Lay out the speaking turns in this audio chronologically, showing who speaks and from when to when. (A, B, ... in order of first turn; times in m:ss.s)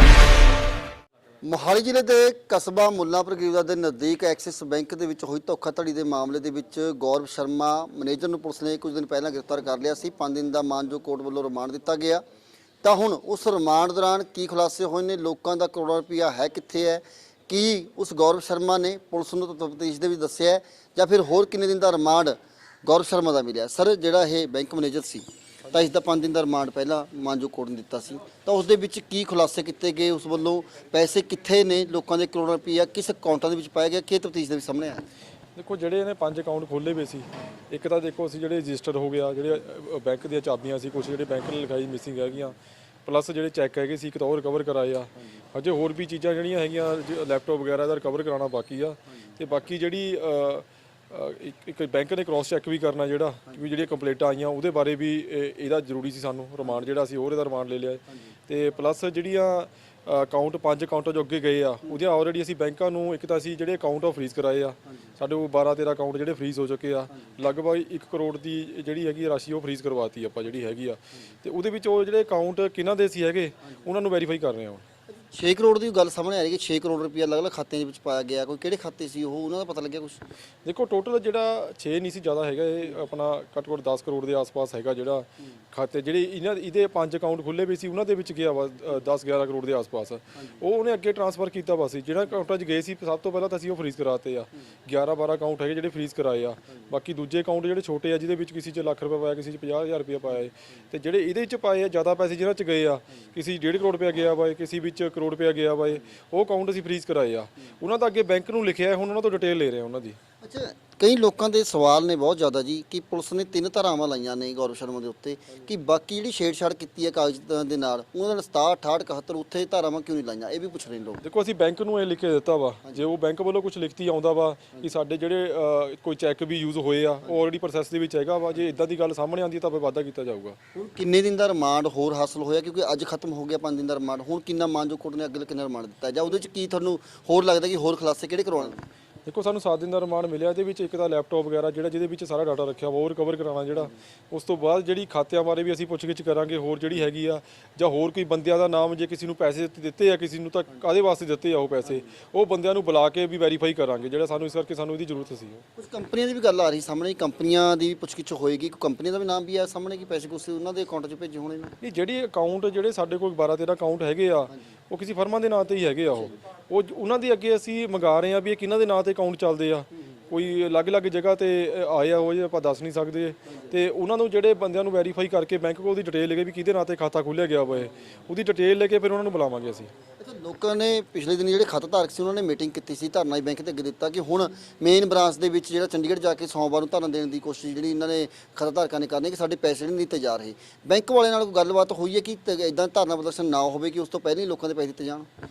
0:01.4-0:12.2 A
0:12.8-0:35.0 A
0:35.6-1:14.8 B
1:15.2-1:20.2 A
1:20.6-1:50.2 B
1:50.4-2:01.2 A
2:01.2-2:10.6 B
2:10.7-2:18.8 A
2:19.3-2:35.6 B
2:35.8-2:41.8 A
2:41.8-2:59.9 B
3:00.2-3:15.3 A